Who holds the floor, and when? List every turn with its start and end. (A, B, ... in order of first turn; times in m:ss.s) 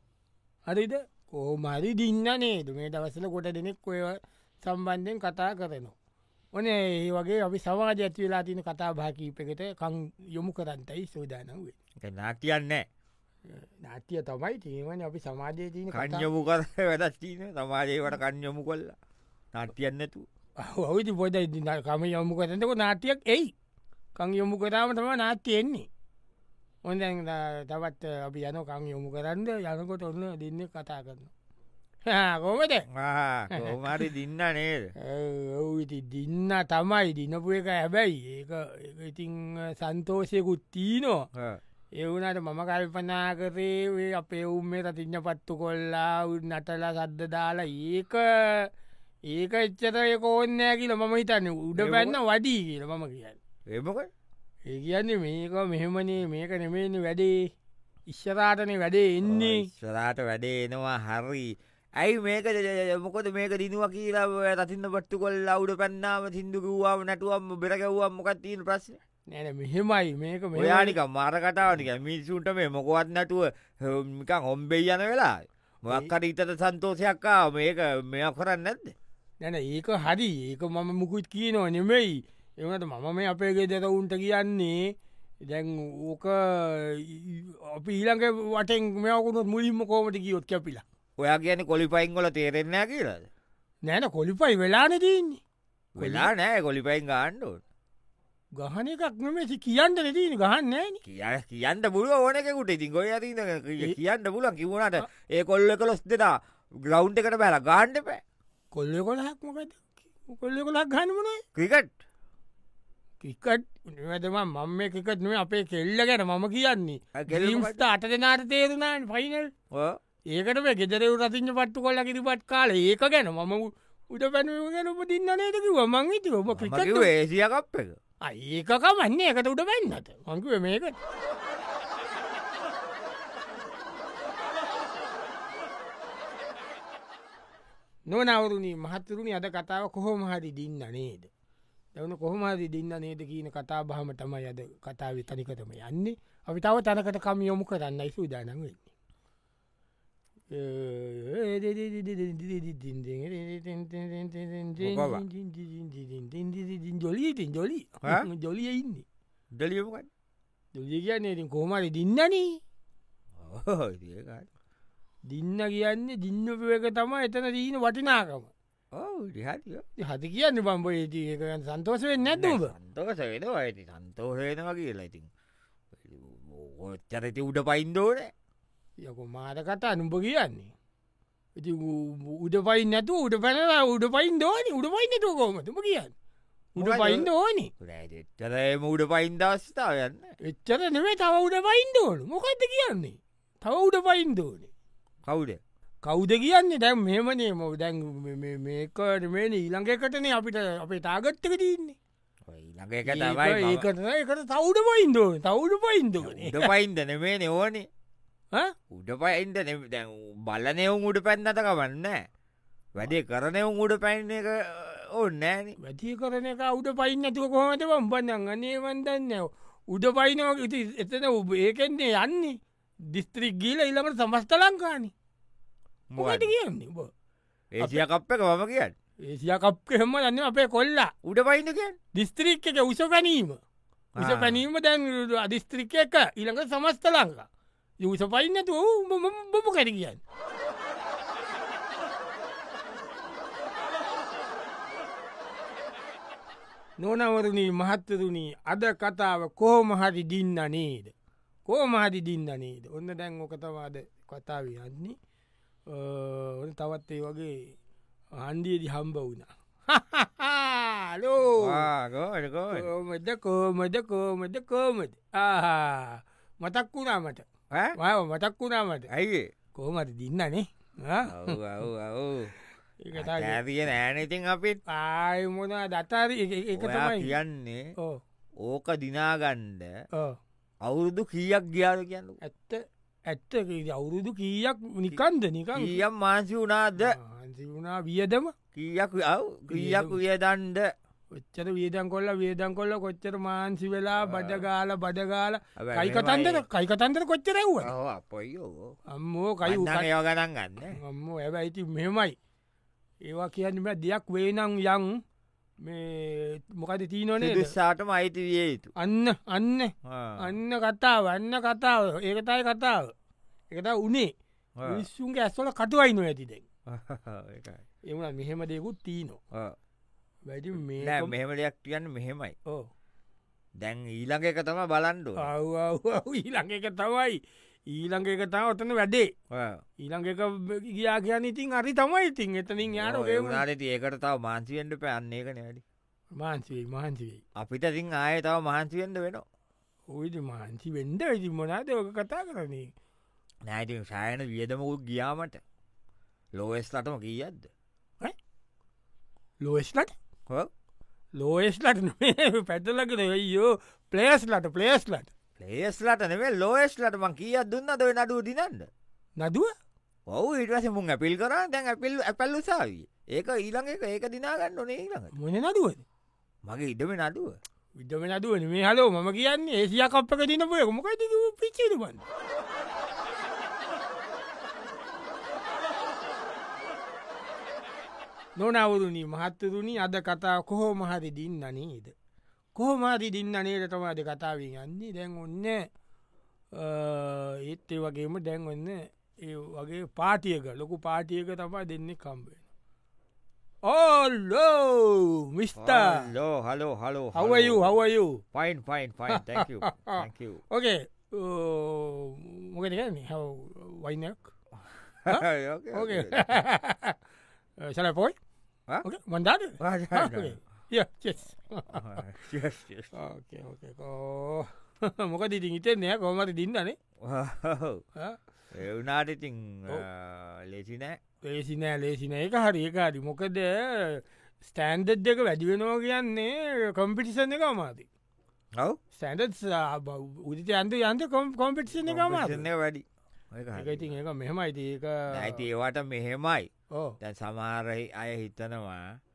0:00.7-0:05.9 A
0:06.5-0:11.7 A
0:12.0-0:12.9 B
0:13.5-0:16.3 A
0:15.9-0:18.9 B
0:19.5-0:20.3 B
0:20.6-0:23.5 A
0:24.2-0:25.9 A
0:26.8-0:31.3 A
0:32.0-0:32.8 A
0:32.9-0:34.9 B
0:35.0-0:41.3 A
0:41.3-0:41.6 B
0:41.9-0:48.7 A
0:49.3-0:53.4 A
0:51.8-0:52.2 B
0:53.7-0:54.1 B
0:54.7-0:57.5 A
0:58.1-0:59.7 A
0:59.2-1:09.0 B
1:09.3-1:11.0 A
1:10.5-1:18.9 B
1:19.4-1:30.8 A
1:31.2-1:33.3 B
1:33.8-1:35.4 A
1:35.9-1:37.6 B
1:36.0-1:36.3 A
1:38.6-1:41.0 A
1:41.0-1:48.2 B
1:48.7-1:51.4 A
1:51.5-1:51.9 B
1:53.2-1:59.5 A
1:57.1-1:57.8 B
1:59.7-2:00.0 B
2:00.3-2:07.1 A
2:06.5-2:08.0 B
2:08.2-2:11.0 A
2:18.1-2:21.3 A
2:21.9-2:28.8 A
2:30.5-2:39.0 A
2:34.8-2:35.2 B
2:39.5-2:40.1 B
2:40.7-2:42.6 A
2:43.4-2:44.5 B
2:45.2-2:48.5 A
2:48.9-2:49.8 B
2:50.0-2:52.7 A
2:52.2-2:55.3 B
2:56.0-2:58.3 B
2:59.0-3:00.7 A
3:01.6-3:06.1 A
3:06.8-3:07.7 A
3:06.8-3:07.3 B
3:07.8-3:10.3 B
3:10.4-3:14.7 A
3:15.2-3:15.6 B
3:16.0-3:22.0 A
3:22.5-3:23.8 B
3:23.0-3:26.7 A
3:26.2-3:27.9 B
3:28.9-3:32.2 B
3:32.9-3:35.8 B
3:35.8-3:45.1 A
3:46.1-3:46.5 B
3:46.2-3:47.1 A
3:47.7-3:48.9 B
3:49.2-3:51.1 A
3:51.2-3:52.0 B
3:52.1-3:53.6 A
3:54.1-3:54.6 B
3:54.2-3:57.5 A
3:58.0-4:00.2 A
4:07.0-4:11.1 A
4:11.6-4:15.2 A
4:15.9-4:17.8 A
4:18.3-4:21.9 A
4:21.6-4:22.9 B
4:22.7-4:29.1 A
4:27.7-4:28.0 B
4:29.1-4:29.5 B
4:29.7-4:31.6 A
4:31.2-4:32.5 B
4:33.0-4:33.6 A
4:33.2-4:34.8 B
4:34.9-4:37.3 A
4:36.8-4:37.8 B
4:38.6-4:39.9 B
4:40.1-4:40.4 A
4:40.8-4:42.4 B
4:42.4-4:46.0 A
4:45.7-4:47.2 B
4:47.0-4:48.5 A
4:48.7-4:50.9 B
4:49.7-4:50.2 A
4:51.3-4:57.9 A
4:54.2-4:54.6 B
4:55.8-4:56.6 B
4:57.8-4:58.9 B
4:59.1-5:00.1 A
4:59.6-5:01.0 B
5:00.9-5:02.4 A
5:03.2-5:05.2 A
5:05.8-5:07.7 A
5:07.4-5:08.9 B
5:09.0-5:13.1 A
5:10.0-5:10.5 B
5:13.7-5:16.6 A
5:14.8-5:15.0 B
5:16.9-5:17.8 B
5:18.1-5:19.4 A
5:20.4-5:21.3 A
5:21.0-5:22.5 B
5:23.8-5:25.4 B
5:25.4-5:29.3 A
5:29.5-5:29.8 B
5:30.0-5:33.6 A
5:32.9-5:35.8 B
5:36.3-5:37.4 A
5:37.6-5:39.4 B
5:40.1-5:42.9 A
5:43.7-5:45.6 B
5:46.5-5:47.7 B
5:49.6-5:50.1 A
5:51.4-5:55.3 A
5:55.6-5:58.9 B
5:59.4-5:59.7 A
6:00.3-6:05.3 B
6:05.3-6:06.0 A
6:06.6-6:07.6 B
6:08.0-6:12.2 A
6:18.6-6:22.1 A
6:22.7-6:25.9 A
6:26.7-6:32.6 A
6:33.8-6:36.3 A
6:35.8-6:37.9 B
6:37.3-6:38.4 A
6:38.5-6:40.6 B
6:39.3-6:44.5 A
6:45.2-6:46.6 B
6:45.3-6:47.2 A
6:47.8-6:48.4 A
6:49.0-6:52.2 A
6:49.8-6:50.5 B
6:51.9-6:53.1 B
6:53.1-6:57.0 A
6:57.2-6:58.0 B
6:58.7-7:01.2 B
7:01.4-7:08.1 A
7:09.1-7:12.6 A
7:12.0-7:14.2 B
7:13.7-7:15.6 A
7:15.3-7:16.7 B
7:17.2-7:19.2 B